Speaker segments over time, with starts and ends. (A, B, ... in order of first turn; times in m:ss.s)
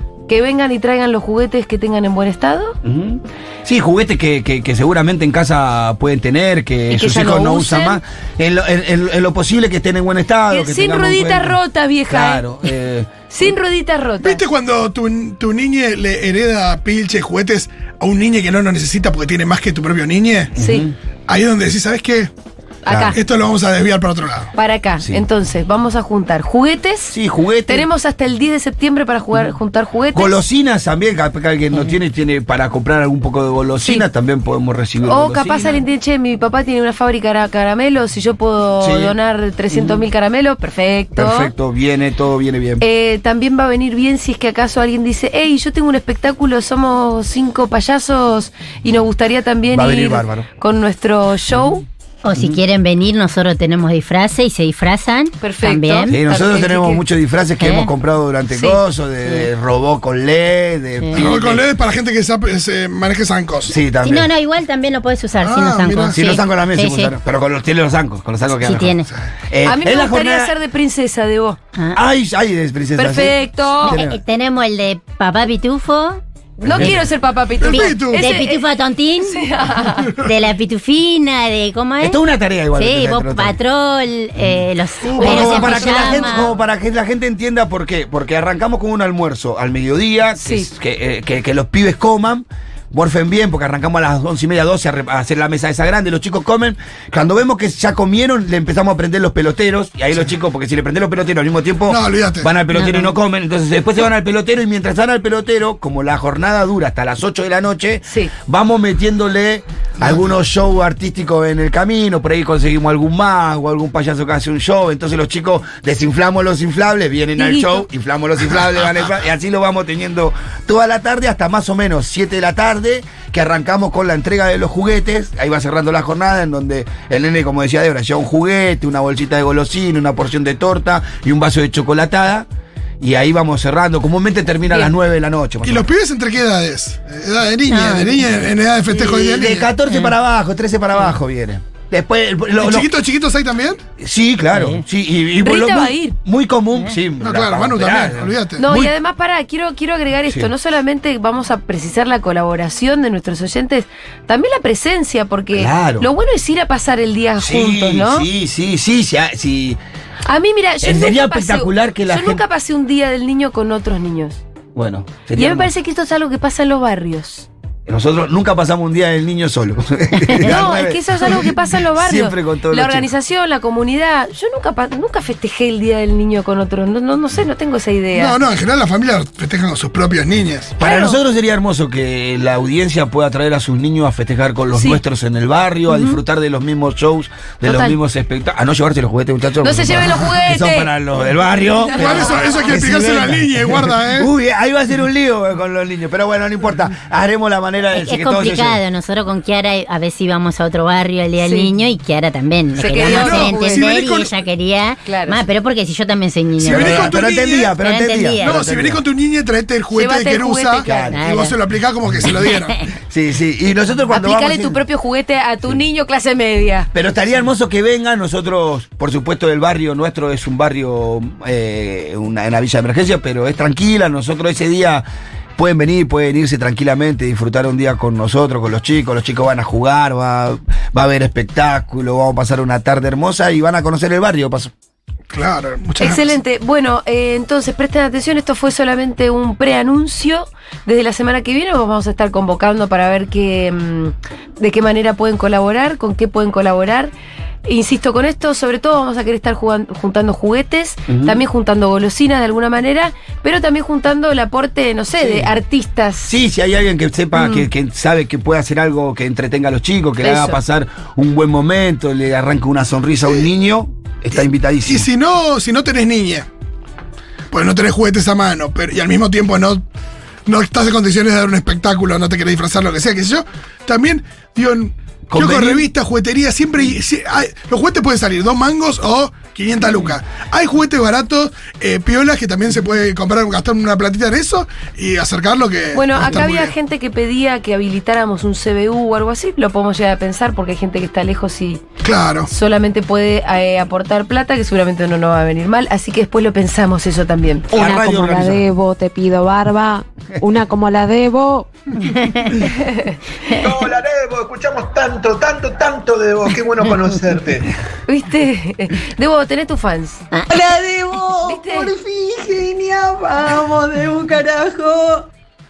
0:00.3-0:02.8 A
0:02.8-0:13.3 B
0:06.9-0:08.0 A
0:10.5-0:12.5 A
0:13.3-0:14.4 A
0:14.2-0:20.5 C
0:20.6-0:20.9 B
0:20.6-0:20.9 A
0:21.3-0:22.3 C
0:22.8-0:23.2 A
0:22.8-0:23.2 B
0:23.1-0:24.5 C
0:24.5-0:27.2 A
0:27.1-0:27.9 B
0:27.7-0:30.3 A
0:30.1-0:35.7 B
0:35.0-0:41.5 A
0:38.8-0:39.2 B
0:41.2-0:42.8 B
0:42.8-0:51.8 A
0:49.7-0:50.5 B
0:52.2-0:56.2 D
0:55.4-0:57.0 A
0:56.1-1:01.6 B
0:57.6-0:57.9 D
0:58.5-0:59.5 D
1:01.1-1:03.8 C
1:03.7-1:04.3 B
1:04.0-1:07.1 D
1:05.4-1:06.2 C
1:06.1-1:10.5 B
1:08.6-1:09.1 D
1:09.6-1:11.6 A
1:11.7-1:12.0 D
1:11.9-1:14.2 B
1:13.0-1:14.0 A
1:13.8-1:16.2 D
1:16.6-1:18.6 A
1:16.6-1:17.0 B
1:17.6-1:18.3 C
1:17.6-1:19.4 D
1:19.2-1:20.1 A
1:20.2-1:22.2 D
1:22.0-1:23.6 B
1:22.7-1:26.5 D
1:25.0-1:26.4 C
1:25.2-2:12.5 B
1:30.4-1:30.7 A
1:41.9-1:42.5 C
1:42.7-1:43.1 D
1:48.1-1:48.3 A
1:57.4-1:57.8 A
2:13.0-2:15.8 B
2:15.6-2:19.7 C
2:17.7-2:18.2 D
2:18.9-2:22.9 B
2:19.9-2:20.1 D
2:22.6-2:23.8 C
2:24.0-2:28.4 B
2:24.5-2:24.8 D
2:25.4-2:26.2 A
2:27.2-2:28.9 C
2:28.6-2:38.3 A
2:35.5-2:36.1 B
2:37.4-2:39.8 B
2:40.3-2:44.4 A
2:40.8-2:42.4 B
2:44.7-2:45.7 B
2:45.4-2:47.5 A
2:47.9-2:53.1 B
2:50.2-2:50.6 D
2:50.4-2:58.4 A
2:58.1-3:00.7 C
3:00.8-3:18.8 B
3:00.8-3:01.2 A
3:04.7-3:05.0 A
3:05.9-3:06.2 A
3:07.6-3:07.9 A
3:09.6-3:10.9 A
3:11.8-3:12.6 A
3:12.0-3:14.3 C
3:17.9-3:28.6 D
3:21.4-3:21.7 A
3:22.8-3:23.9 A
3:22.9-3:24.3 C
3:25.0-3:25.4 A
3:26.6-3:27.7 C
3:26.6-3:29.0 B
3:28.4-3:32.9 C
3:29.9-3:31.1 A
3:30.8-3:31.2 B
3:31.1-3:31.6 D
3:32.9-3:34.8 B
3:34.1-3:36.9 A
3:36.9-3:45.0 B
3:45.6-3:54.7 B
3:55.3-3:56.3 C
3:56.0-4:07.1 A
4:07.6-4:16.3 A
4:11.1-4:11.4 B
4:15.2-4:15.5 B
4:16.2-4:25.1 B
4:17.3-4:17.7 A
4:20.2-4:20.6 A
4:24.4-4:26.5 C
4:27.5-4:29.8 C
4:30.4-4:46.7 C
4:35.3-4:35.9 B
4:45.9-4:51.8 A
4:52.0-4:52.5 C
4:52.5-4:57.7 A
4:57.7-4:58.7 B
4:57.7-5:01.7 E
5:02.0-5:02.7 D
5:02.8-5:03.2 A
5:03.5-5:07.7 F
5:08.1-5:10.2 A
5:10.5-5:15.3 F
5:11.4-5:11.9 A